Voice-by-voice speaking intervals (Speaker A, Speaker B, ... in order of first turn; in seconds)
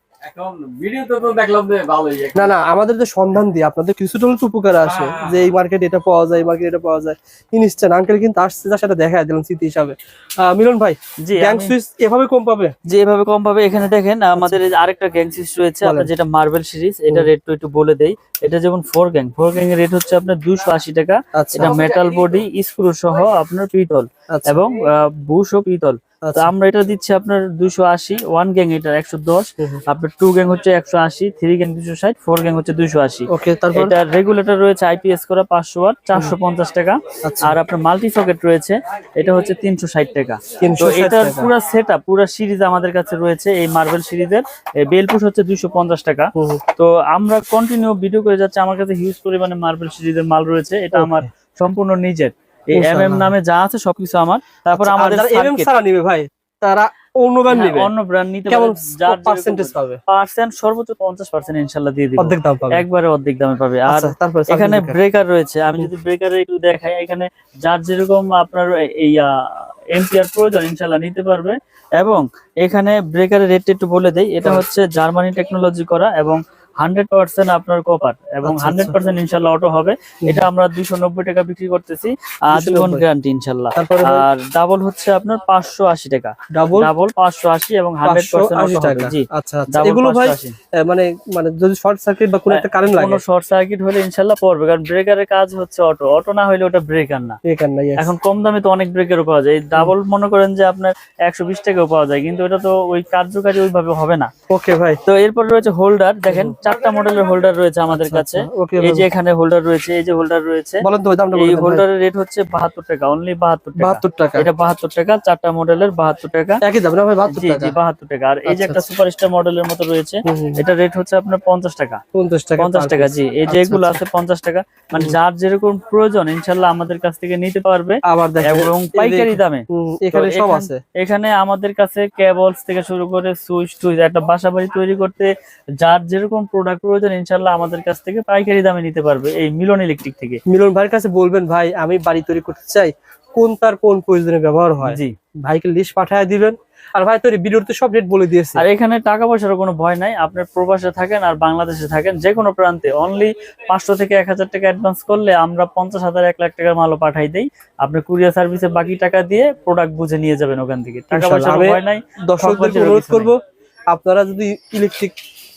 Speaker A: 0.3-2.4
Speaker B: 2.3-12.7, 15.8-16.1, 21.3-21.9, 24.3-24.6, 26.2-26.5, 33.3-33.9, 37.2-37.6, 40.6-41.5, 46.3-46.6, 50.9-51.2, 52.7-53.3, 54.7-57.9, 58.5-60.0, 62.2-62.8, 63.9-65.0, 78.4-79.0, 82.5-83.0, 83.7-84.2, 86.5-86.9, 88.0-93.2, 97.4-98.1, 104.5-105.0, 106.3-106.6, 107.9-109.1, 110.8-111.8, 113.8-114.5, 116.6-117.7, 118.5-118.8, 120.2-120.6, 122.1-124.0, 128.0-130.8, 140.5-148.6, 161.1-163.4, 163.9-165.1
Speaker C: 11.2-11.7, 12.8-55.7, 57.5-69.3, 69.9-90.5, 92.5-97.4, 98.0-104.3, 105.0-116.6, 117.3-122.0, 122.6-140.4, 144.8-145.1, 148.6-163.3